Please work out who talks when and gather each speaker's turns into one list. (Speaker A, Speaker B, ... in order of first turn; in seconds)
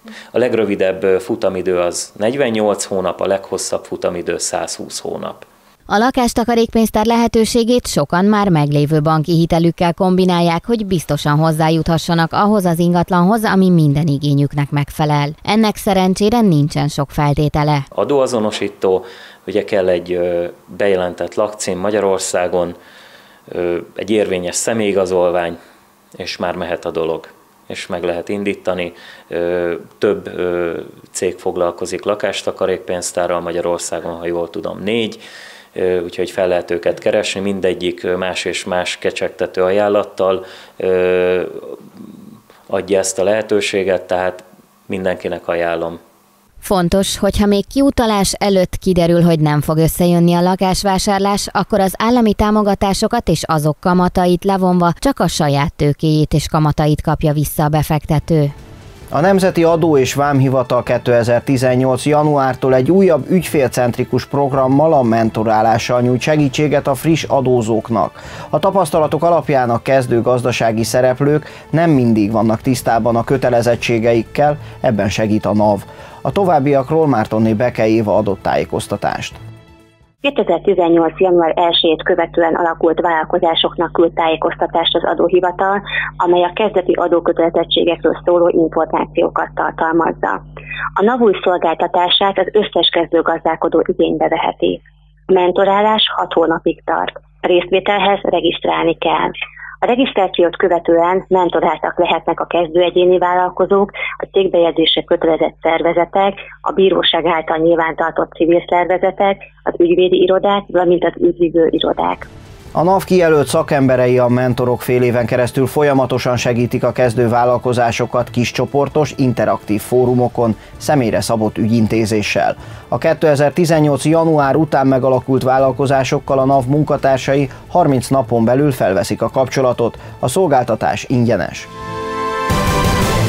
Speaker A: 0.3-5.5, 17.9-22.8, 23.5-25.6, 26.2-35.2, 35.8-41.8, 42.7-46.0
Speaker B: 5.9-17.9, 46.6-58.5
Speaker C: 59.1-79.4, 112.8-131.7
Speaker D: 80.2-90.4, 91.0-112.3